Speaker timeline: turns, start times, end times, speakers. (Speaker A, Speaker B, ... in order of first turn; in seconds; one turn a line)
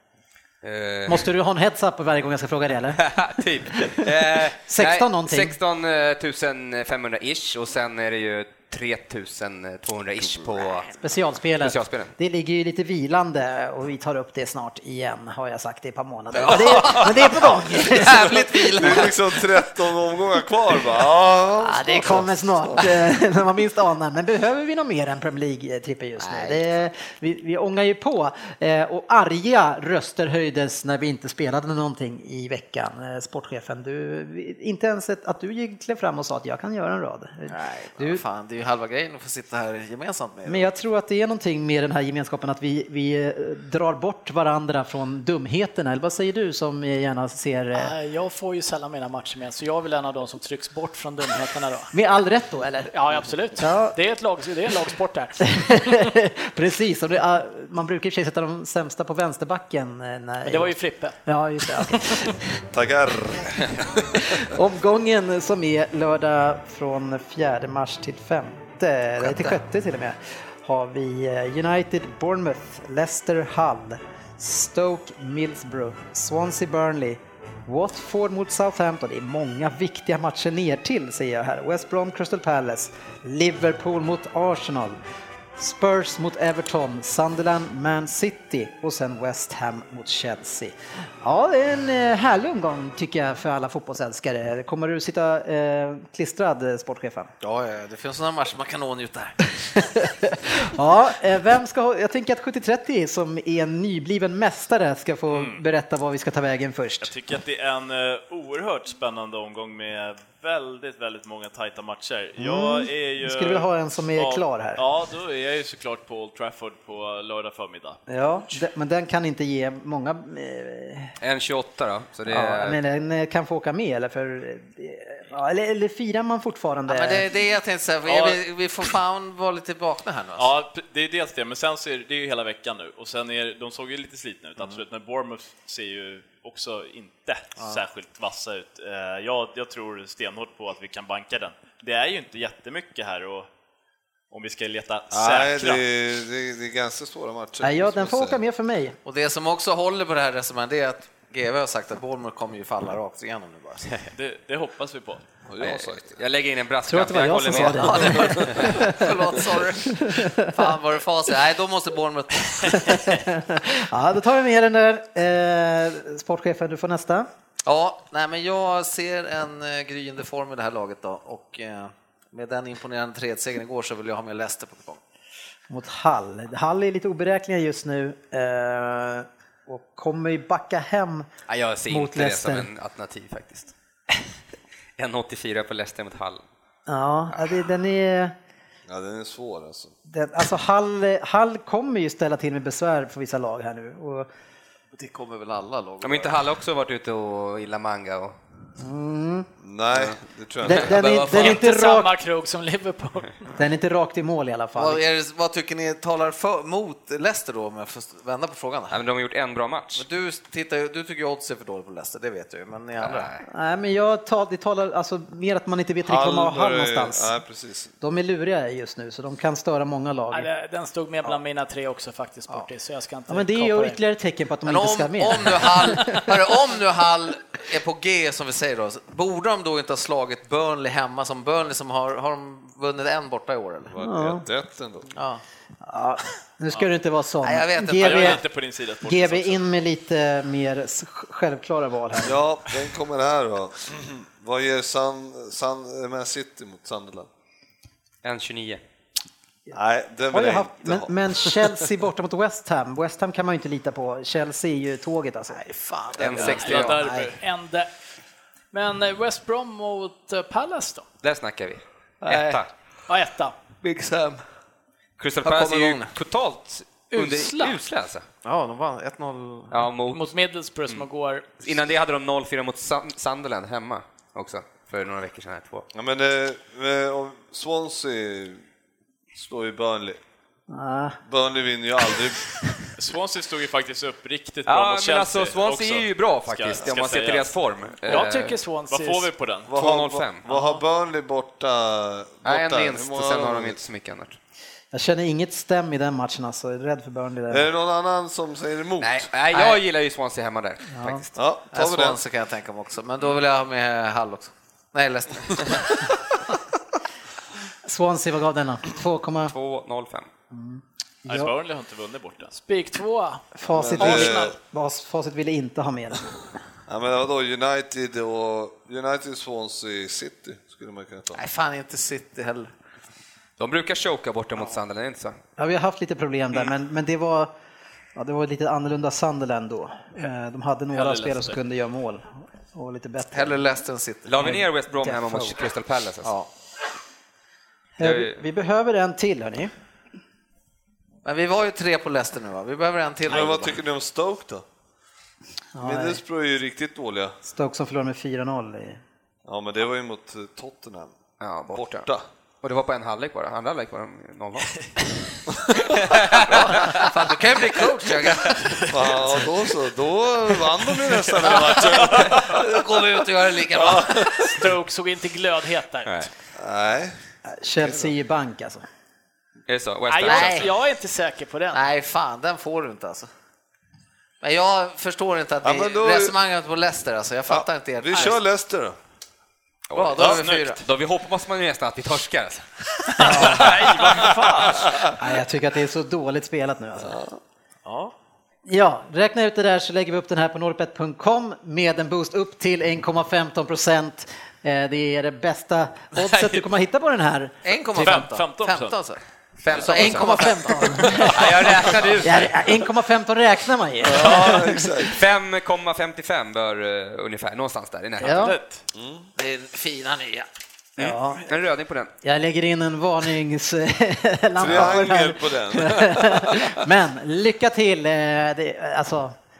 Speaker A: 0.6-1.3
Speaker B: 1.1-3.0
Speaker A: 3.0-10.9
Speaker B: 4.7-5.5
Speaker B: 11.0-18.7
Speaker A: 11.6-12.1
Speaker C: 16.3-19.6
Speaker D: 18.2-23.0
Speaker B: 21.6-38.2
Speaker C: 26.2-26.7
Speaker C: 37.5-40.7
Speaker B: 40.5-47.9
Speaker E: 47.7-51.9
Speaker B: 51.9-52.9
Speaker E: 52.9-55.4
Speaker B: 53.6-54.0
Speaker B: 55.4-60.7
Speaker E: 60.5-61.1
Speaker B: 61.2-62.6
Speaker D: 62.7-64.5
Speaker B: 64.2-85.0
Speaker C: 69.2-69.6
Speaker B: 85.6-97.3
Speaker C: 97.4-99.5
Speaker B: 99.8-107.1
Speaker F: 105.3-105.6
Speaker F: 107.0-118.0
Speaker B: 112.4-114.8
Speaker B: 118.1-121.1
Speaker A: 121.2-122.8
Speaker B: 122.3-127.3
Speaker C: 126.9-130.5
Speaker F: 128.1-128.4
Speaker F: 130.4-143.5
Speaker F: 144.3-145.8
Speaker D: 145.1-148.4
Speaker B: 147.6-148.9
Speaker C: 149.0-153.9
Speaker F: 154.1-155.2
Speaker D: 155.5-156.2
Speaker A: 155.6-158.7
Speaker B: 156.9-159.2
Speaker C: 157.8-163.1
Speaker D: 158.3-158.7
Speaker B: 159.8-160.5
Speaker B: 162.7-167.3
Speaker C: 167.7-175.0
Speaker B: 175.7-181.3
Speaker A: 181.5-183.7
Speaker B: 181.9-182.7
Speaker A: 185.0-186.4
Speaker B: 186.9-188.3
Speaker D: 188.9-189.9
Speaker B: 190.1-194.3
Speaker C: 194.9-196.4
Speaker A: 196.0-198.3
Speaker B: 198.8-199.5
Speaker D: 199.6-201.2
Speaker A: 199.9-200.2
Speaker B: 200.6-202.1
Speaker C: 201.0-201.6
Speaker E: 201.2-203.4
Speaker B: 203.6-205.0
Speaker C: 204.8-209.0
Speaker A: 208.9-210.0
Speaker C: 209.9-213.3
Speaker A: 213.0-213.4
Speaker B: 213.4-217.3
Speaker D: 216.0-217.9
Speaker B: 218.0-220.5
Speaker E: 220.3-224.0
Speaker B: 223.3-226.3
Speaker C: 224.7-234.0
Speaker D: 233.9-235.1
Speaker B: 234.0-234.4
Speaker C: 235.1-235.4
Speaker B: 235.8-238.4
Speaker C: 237.4-238.4
Speaker F: 237.9-239.6
Speaker B: 239.0-242.4
Speaker D: 242.2-247.3
Speaker A: 248.2-248.8
Speaker D: 249.7-251.8
Speaker B: 250.3-255.6
Speaker C: 255.5-257.4
Speaker A: 256.2-257.1
Speaker E: 256.3-257.9
Speaker E: 258.7-261.0
Speaker A: 261.2-262.7
Speaker E: 262.3-263.5
Speaker C: 263.8-264.4
Speaker A: 265.2-268.2
Speaker C: 265.4-266.1
Speaker E: 267.1-267.8
Speaker C: 268.4-269.8
Speaker A: 269.7-270.3
Speaker E: 270.1-271.7
Speaker A: 271.6-275.8
Speaker D: 275.9-278.6
Speaker D: 279.3-280.2
Speaker B: 280.7-281.2
Speaker D: 281.3-282.4
Speaker F: 283.0-289.7
Speaker A: 284.6-288.6
Speaker E: 288.1-289.3
Speaker D: 289.7-293.8
Speaker A: 289.7-290.6
Speaker A: 292.4-294.4
Speaker B: 294.9-297.7
Speaker D: 297.5-299.2
Speaker A: 299.0-301.3
Speaker B: 300.9-301.3
Speaker D: 301.3-302.2
Speaker C: 301.7-305.9
Speaker B: 307.8-309.5
Speaker A: 309.5-310.3
Speaker B: 310.5-311.5
Speaker F: 311.3-312.6
Speaker E: 312.5-313.4
Speaker B: 313.6-316.4
Speaker D: 313.7-314.5
Speaker E: 314.0-314.6
Speaker D: 316.9-321.4
Speaker C: 321.3-322.7
Speaker A: 323.6-325.4
Speaker B: 325.6-327.5
Speaker B: 328.1-333.6
Speaker F: 330.9-331.6
Speaker C: 333.3-334.6
Speaker A: 334.2-336.3
Speaker B: 334.4-335.5
Speaker C: 336.2-336.5
Speaker B: 338.0-339.7
Speaker A: 338.0-338.4
Speaker C: 341.2-343.8
Speaker D: 343.3-344.6
Speaker B: 345.8-346.2
Speaker D: 345.8-347.4
Speaker B: 347.4-349.0
Speaker D: 349.5-351.1
Speaker A: 351.4-352.1
Speaker D: 351.7-352.2
Speaker A: 352.6-355.0
Speaker A: 355.9-357.0
Speaker C: 356.4-358.9
Speaker D: 358.9-362.8
Speaker C: 361.4-364.4
Speaker D: 363.8-364.5
Speaker E: 364.4-366.3
Speaker D: 366.6-367.1
Speaker B: 367.4-368.8
Speaker D: 367.8-368.1
Speaker A: 369.7-370.7
Speaker E: 370.1-371.8
Speaker C: 370.2-370.7
Speaker C: 371.7-373.3
Speaker C: 374.4-378.4
Speaker D: 375.6-376.4
Speaker D: 377.5-379.0
Speaker A: 379.9-384.2
Speaker C: 379.9-380.8
Speaker F: 380.2-380.6
Speaker B: 383.2-383.8
Speaker F: 383.2-384.9
Speaker D: 384.1-385.2
Speaker B: 385.2-387.2
Speaker D: 387.0-387.4
Speaker C: 387.9-388.1
Speaker B: 388.7-398.2
Speaker F: 396.1-396.6
Speaker C: 397.6-401.3
Speaker F: 398.0-399.0
Speaker A: 399.6-400.8
Speaker B: 399.8-401.6
Speaker F: 400.9-402.1
Speaker A: 401.3-402.5
Speaker B: 402.2-405.1
Speaker D: 404.0-405.2
Speaker A: 405.1-408.5
Speaker B: 408.2-408.6
Speaker F: 408.2-408.8
Speaker D: 408.9-409.2
Speaker C: 409.4-410.5
Speaker A: 411.0-412.1
Speaker B: 411.0-411.4
Speaker B: 412.2-419.4
Speaker D: 414.6-416.8
Speaker A: 414.6-414.9